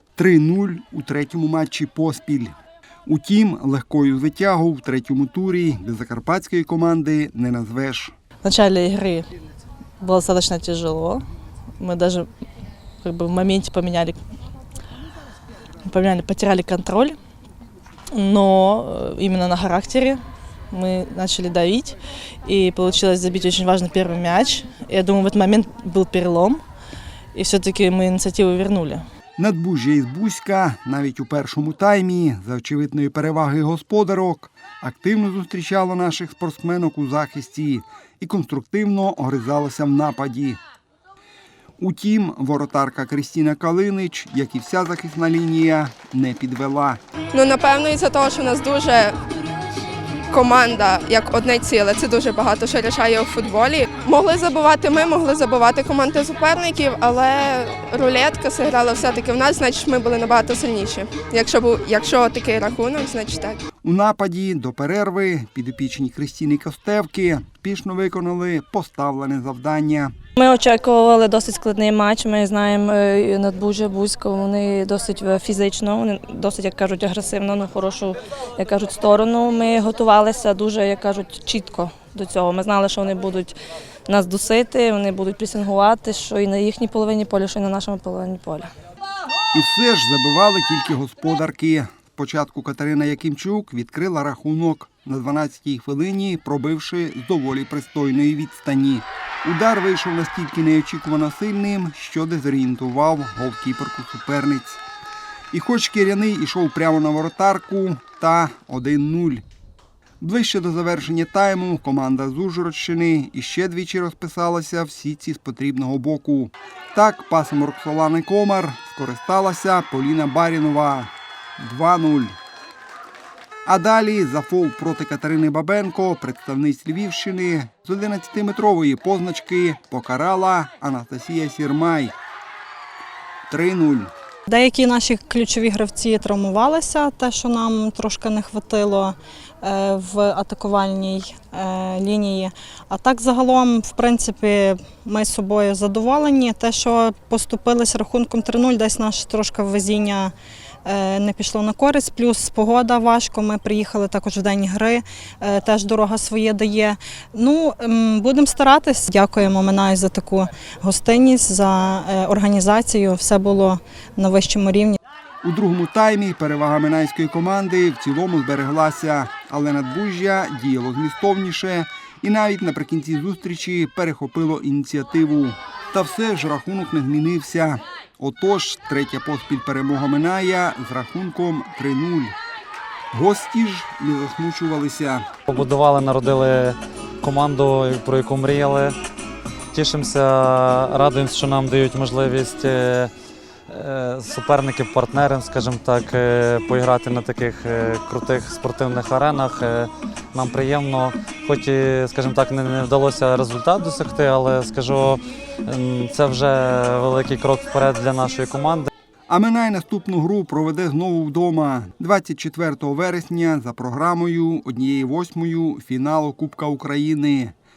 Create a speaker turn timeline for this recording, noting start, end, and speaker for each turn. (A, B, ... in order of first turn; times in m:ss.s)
0:00.2-0:08.2 A
0:08.4-0:09.3 B
0:10.0-0:11.2 B
0:11.8-0:12.3 B
0:13.0-0:14.2 B
0:15.8-0:17.2 B
0:18.1-0:26.6 B
0:27.3-0:29.0 B
0:29.4-0:40.6 A
0:41.8-0:47.0 A
0:47.3-0:49.2 C
0:50.3-1:03.6 C
1:03.8-1:10.1 A
1:10.4-1:23.6 D
1:24.1-1:28.7 D
1:29.5-1:44.8 A
1:45.5-1:49.4 A
1:50.2-2:02.4 A
2:03.7-2:12.1 A
2:13.5-2:14.1 A
2:14.5-2:30.3 E
2:30.8-2:45.0 E
2:45.4-3:02.4 A
3:03.1-3:05.3 A
3:05.5-3:09.0 F
3:09.7-3:13.1 F
3:13.7-3:28.9 F
3:29.3-3:37.5 A